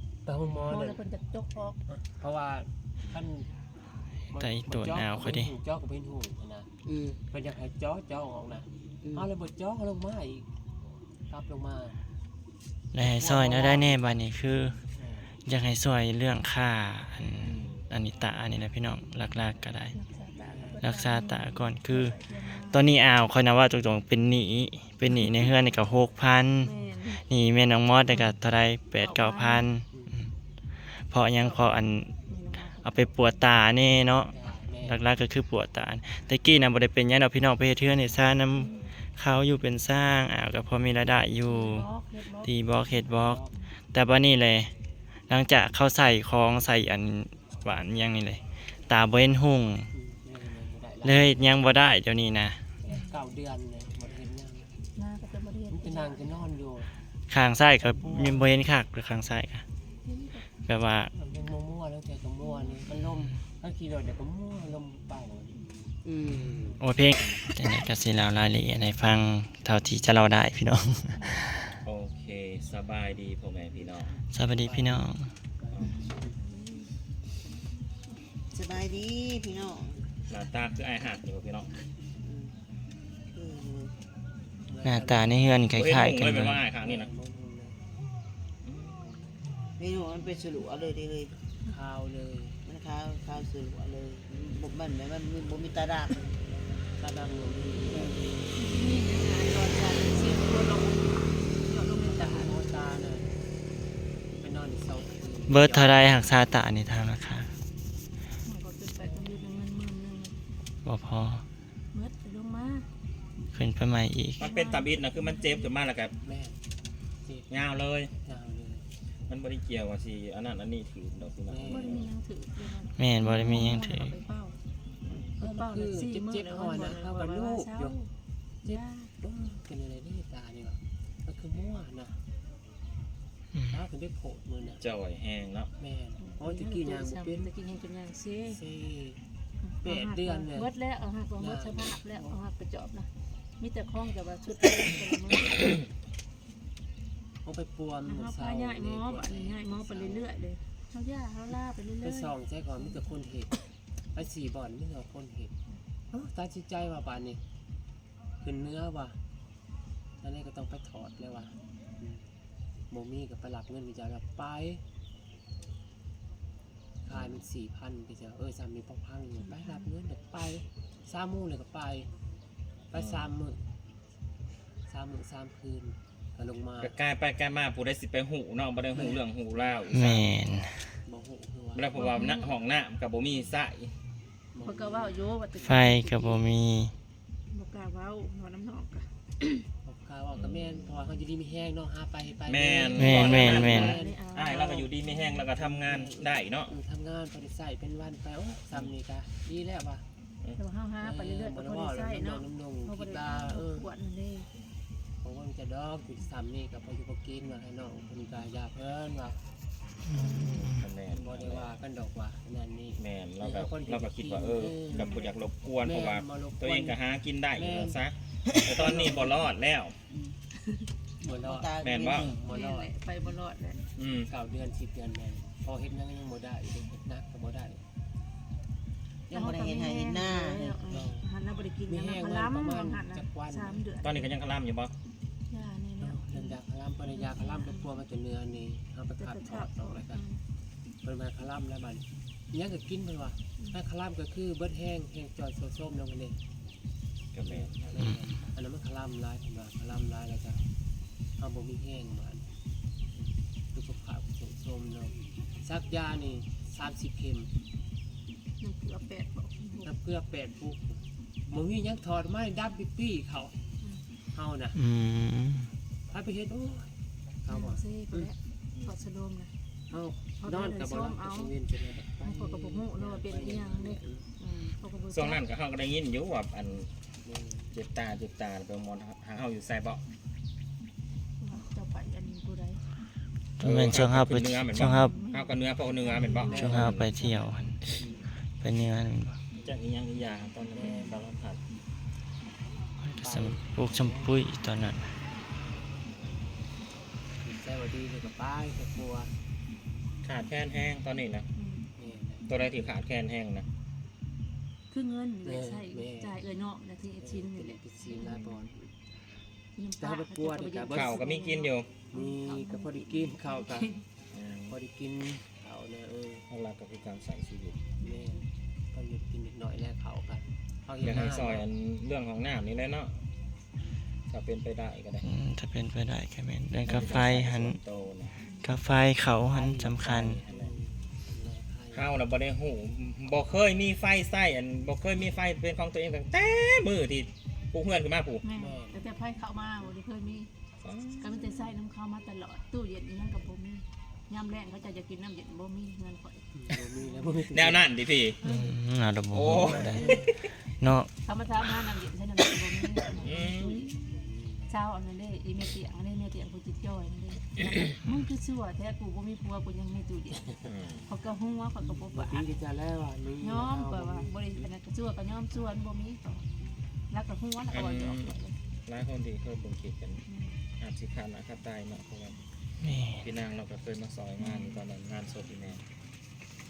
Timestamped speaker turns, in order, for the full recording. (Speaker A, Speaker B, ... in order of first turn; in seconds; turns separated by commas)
Speaker A: 0.2-1.0, Speaker B: 0.7-1.8, Speaker A: 1.9-3.5, Speaker A: 4.3-6.7, Speaker C: 4.4-5.5, Speaker D: 6.8-7.2, Speaker A: 7.3-10.5, Speaker A: 11.3-12.0, Speaker C: 12.9-14.8, Speaker A: 13.0-14.2, Speaker A: 14.9-15.3, Speaker C: 15.4-20.0, Speaker B: 20.0-22.9, Speaker A: 20.4-20.9, Speaker C: 20.8-30.2, Speaker B: 25.1-25.7, Speaker B: 26.6-27.2, Speaker B: 29.0-29.7, Speaker A: 29.9-30.2, Speaker C: 30.9-41.9, Speaker B: 31.4-33.4, Speaker A: 34.3-35.0, Speaker B: 38.5-38.9, Speaker B: 41.4-43.6, Speaker C: 42.4-44.7, Speaker A: 43.1-43.5, Speaker C: 45.3-49.9, Speaker A: 49.9-51.6, Speaker C: 51.0-52.6, Speaker A: 52.8-54.8, Speaker B: 52.9-53.2, Speaker B: 55.0-56.5, Speaker A: 55.7-56.9, Speaker C: 57.3-59.6, Speaker A: 57.9-58.5, Speaker B: 60.0-60.5, Speaker C: 60.6-61.1, Speaker A: 61.1-65.7, Speaker B: 62.5-62.8, Speaker D: 66.0-66.8, Speaker C: 66.3-71.7, Speaker B: 71.2-71.5, Speaker E: 71.8-74.1, Speaker C: 74.3-75.3, Speaker A: 74.5-76.4, Speaker B: 75.9-76.9, Speaker D: 78.5-80.0, Speaker E: 80.3-81.7, Speaker D: 82.2-82.5, Speaker D: 83.3-83.9, Speaker A: 84.7-85.7, Speaker C: 84.8-86.6, Speaker E: 85.8-87.1, Speaker A: 86.8-87.8, Speaker E: 88.6-89.2, Speaker D: 89.8-91.3, Speaker A: 91.7-92.6, Speaker D: 92.7-96.2, Speaker A: 96.7-98.2, Speaker B: 98.5-102.6, Speaker A: 102.0-103.4, Speaker A: 104.4-106.1, Speaker C: 105.5-107.5, Speaker B: 108.4-110.4, Speaker C: 110.8-111.5, Speaker B: 111.9-112.9, Speaker C: 113.5-114.5, Speaker E: 114.4-116.2, Speaker B: 114.5-115.7, Speaker A: 116.2-116.6, Speaker A: 117.2-117.5, Speaker E: 117.5-118.1, Speaker A: 118.2-118.9, Speaker E: 119.3-122.1, Speaker A: 121.5-122.1, Speaker B: 121.7-124.6, Speaker C: 123.0-124.1, Speaker A: 125.4-128.0, Speaker B: 125.4-128.1, Speaker B: 128.7-129.1, Speaker A: 128.7-132.2, Speaker A: 133.7-134.8, Speaker E: 134.8-135.7, Speaker A: 135.8-137.5, Speaker B: 136.2-138.6, Speaker A: 138.5-139.2, Speaker B: 139.6-145.8, Speaker A: 139.8-140.7, Speaker A: 141.4-142.4, Speaker A: 147.4-150.3, Speaker B: 148.1-152.9, Speaker A: 152.0-153.6, Speaker A: 154.1-155.5, Speaker A: 156.1-157.4, Speaker A: 158.4-159.2, Speaker A: 160.2-162.3, Speaker A: 162.9-164.8, Speaker A: 167.1-172.1, Speaker B: 169.5-169.8, Speaker A: 172.9-173.7, Speaker E: 173.0-173.2, Speaker A: 174.9-176.9, Speaker E: 176.8-180.3, Speaker A: 178.9-179.7, Speaker C: 179.9-181.0, Speaker A: 181.1-181.9, Speaker E: 181.8-183.9, Speaker B: 181.9-182.5, Speaker A: 184.5-185.2, Speaker B: 184.6-186.6, Speaker C: 185.6-186.9, Speaker B: 187.5-189.7, Speaker A: 189.8-194.2, Speaker E: 190.4-191.0, Speaker E: 192.5-196.7, Speaker C: 193.0-194.0, Speaker B: 193.2-195.4, Speaker A: 195.6-200.1, Speaker B: 200.6-204.5, Speaker A: 201.0-203.9, Speaker A: 205.2-209.4, Speaker C: 210.1-210.8, Speaker A: 210.2-215.1, Speaker E: 210.4-211.7, Speaker E: 213.0-220.0, Speaker B: 214.9-215.3, Speaker A: 215.8-217.0, Speaker A: 217.6-218.0, Speaker D: 218.5-218.9, Speaker A: 218.8-219.4, Speaker D: 220.1-220.4, Speaker D: 221.2-222.5, Speaker A: 221.2-222.9, Speaker E: 221.8-222.3, Speaker B: 222.4-223.9, Speaker E: 224.0-224.3, Speaker A: 224.3-227.8, Speaker D: 229.3-230.9, Speaker B: 229.3-234.4, Speaker A: 230.9-231.3, Speaker A: 231.9-233.9, Speaker E: 234.0-234.9, Speaker B: 235.5-236.6, Speaker A: 236.0-240.2, Speaker B: 237.1-237.9, Speaker B: 239.2-240.4, Speaker A: 241.0-246.4, Speaker E: 247.3-247.9, Speaker A: 247.4-250.6, Speaker A: 251.4-252.5, Speaker A: 253.7-257.5, Speaker B: 258.6-259.9, Speaker A: 259.8-263.6, Speaker A: 264.3-264.8, Speaker C: 264.8-265.7, Speaker A: 266.1-268.3, Speaker B: 267.5-269.5, Speaker A: 269.9-274.3, Speaker B: 270.4-271.5, Speaker B: 272.2-275.4, Speaker E: 275.1-276.9, Speaker A: 277.2-277.7, Speaker E: 277.7-280.0, Speaker B: 281.4-282.8, Speaker C: 283.6-285.2, Speaker E: 283.6-287.1, Speaker B: 285.0-287.6, Speaker A: 286.4-286.9, Speaker C: 286.5-289.4, Speaker A: 288.0-288.3, Speaker A: 289.6-289.8, Speaker E: 289.6-291.6, Speaker A: 290.7-291.2, Speaker B: 290.8-291.2, Speaker C: 293.0-295.1, Speaker A: 293.2-294.4, Speaker A: 297.4-299.3, Speaker E: 300.2-301.5, Speaker B: 301.6-301.9, Speaker A: 302.0-302.5, Speaker E: 302.5-303.7, Speaker B: 304.9-308.5, Speaker A: 305.4-306.4, Speaker A: 307.2-308.9, Speaker B: 309.8-314.0, Speaker A: 310.0-311.1, Speaker E: 310.9-311.9, Speaker A: 312.1-314.0, Speaker E: 314.3-314.8, Speaker A: 314.7-316.5, Speaker E: 316.5-317.8, Speaker B: 318.0-318.4, Speaker A: 318.0-321.7, Speaker E: 321.0-323.1, Speaker E: 324.3-325.3, Speaker C: 325.2-327.8, Speaker E: 326.9-328.4, Speaker C: 328.6-330.4, Speaker E: 329.6-330.8, Speaker A: 330.5-332.1, Speaker E: 331.9-338.4, Speaker B: 338.4-340.5, Speaker A: 338.5-339.2, Speaker E: 340.8-341.8, Speaker B: 341.2-346.4, Speaker A: 346.6-347.9, Speaker B: 347.0-347.4, Speaker E: 347.5-348.4, Speaker B: 348.4-348.7, Speaker C: 348.4-351.1, Speaker E: 349.3-350.4, Speaker B: 351.2-354.0, Speaker E: 353.1-353.9, Speaker A: 354.1-354.7, Speaker B: 354.7-362.5, Speaker E: 360.6-361.1, Speaker A: 361.8-364.6, Speaker B: 363.4-366.5, Speaker B: 367.1-368.6, Speaker E: 367.7-370.2, Speaker B: 370.3-370.6, Speaker E: 370.8-372.4, Speaker C: 372.8-373.2, Speaker E: 373.2-375.8, Speaker B: 374.4-374.8